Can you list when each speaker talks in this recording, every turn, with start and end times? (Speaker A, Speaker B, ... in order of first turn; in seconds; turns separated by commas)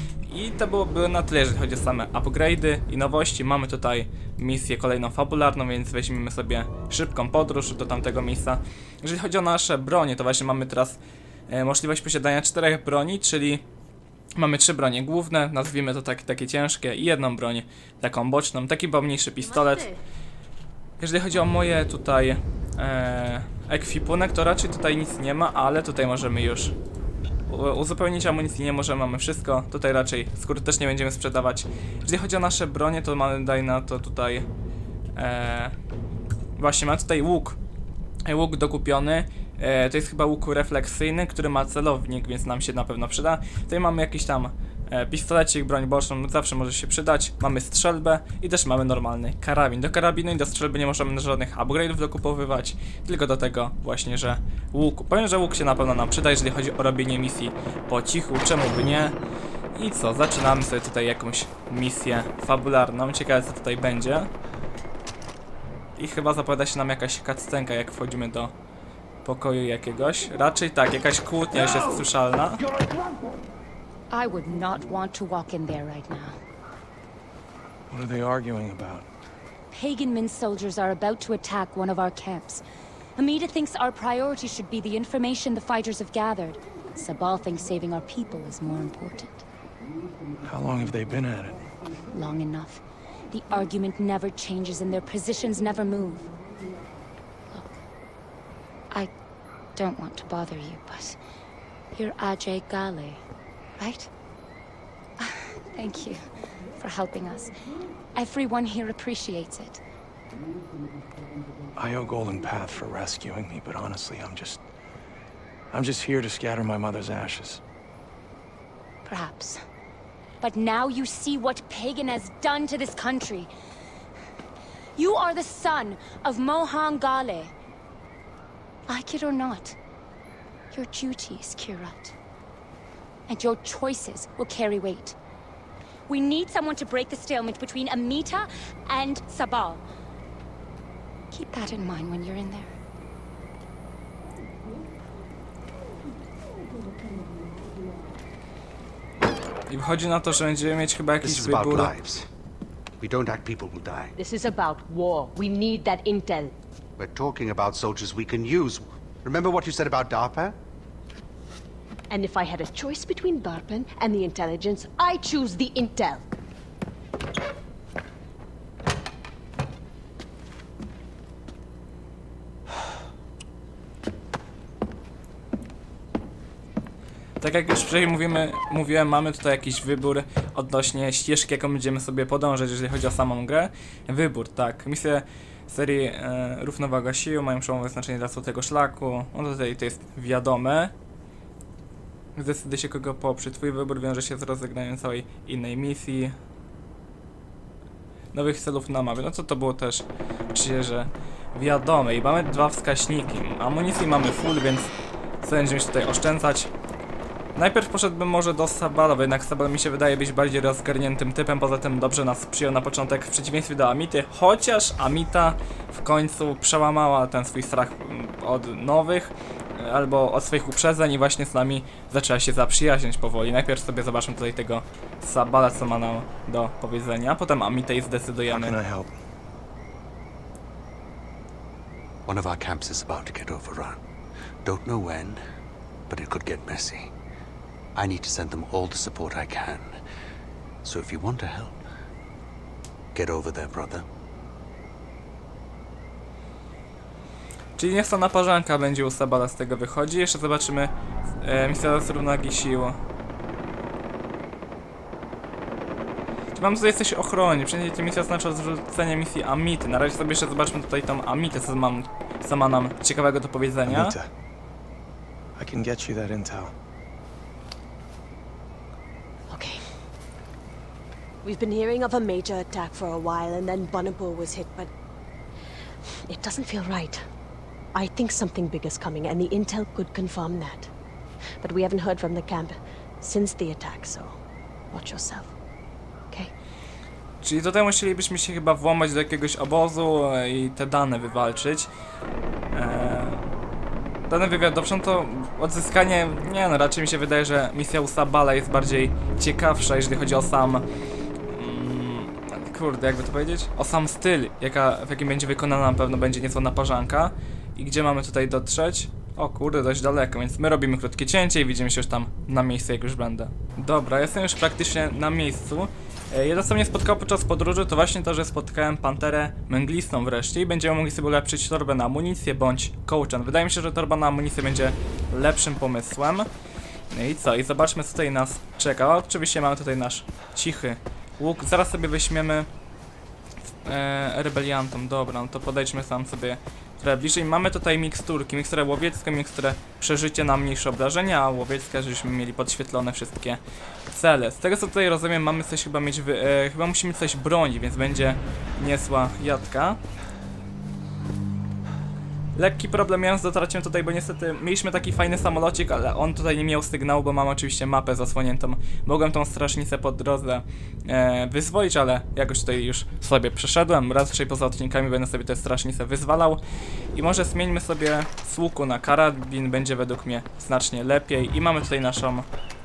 Speaker A: 0.2-13.6, Speaker A: 14.3-19.9, Speaker A: 21.0-26.7, Speaker A: 27.5-34.5, Speaker A: 35.1-35.7, Speaker A: 36.6-37.6, Speaker A: 38.2-59.1, Speaker A: 59.7-64.3, Speaker A: 66.0-68.5, Speaker A: 69.2-72.6, Speaker B: 74.1-76.4, Speaker C: 77.9-79.0, Speaker B: 79.7-82.6, Speaker B: 83.2-89.4, Speaker C: 90.4-91.7, Speaker B: 92.1-96.3, Speaker B: 97.5-97.8, Speaker B: 99.7-101.2, Speaker B: 101.9-103.2, Speaker B: 103.8-104.1, Speaker B: 105.2-106.2, Speaker B: 106.8-107.5, Speaker B: 108.1-109.8, Speaker C: 111.8-114.6, Speaker C: 115.7-117.6, Speaker B: 119.0-119.6, Speaker B: 120.4-123.5, Speaker B: 125.0-127.5, Speaker B: 128.9-129.8, Speaker B: 130.7-132.1, Speaker B: 133.3-135.2, Speaker B: 136.1-139.8, Speaker B: 141.3-142.7, Speaker A: 149.7-151.9, Speaker D: 151.2-152.3, Speaker D: 153.0-154.1, Speaker E: 154.2-156.5, Speaker D: 157.0-160.6, Speaker E: 162.1-166.2, Speaker A: 177.4-190.9, Speaker A: 192.3-196.3, Speaker A: 198.3-204.9, Speaker A: 205.4-206.7, Speaker A: 207.5-228.8, Speaker C: 228.5-229.1, Speaker D: 232.2-234.0, Speaker D: 234.6-235.4, Speaker D: 236.1-237.1, Speaker D: 237.9-240.0, Speaker D: 240.8-241.8, Speaker D: 243.1-244.1, Speaker A: 247.8-253.0, Speaker A: 256.5-264.1, Speaker C: 263.9-264.3, Speaker C: 265.6-266.7, Speaker E: 269.5-269.8, Speaker E: 271.4-274.9, Speaker E: 276.3-277.2, Speaker E: 277.9-280.9, Speaker E: 281.6-284.4, Speaker E: 284.9-285.5, Speaker A: 287.4-291.9, Speaker A: 292.7-293.4, Speaker A: 294.3-300.8, Speaker A: 301.5-326.5, Speaker A: 327.1-332.7, Speaker A: 333.9-343.6, Speaker A: 344.1-350.0, Speaker A: 352.5-366.6, Speaker A: 367.1-372.5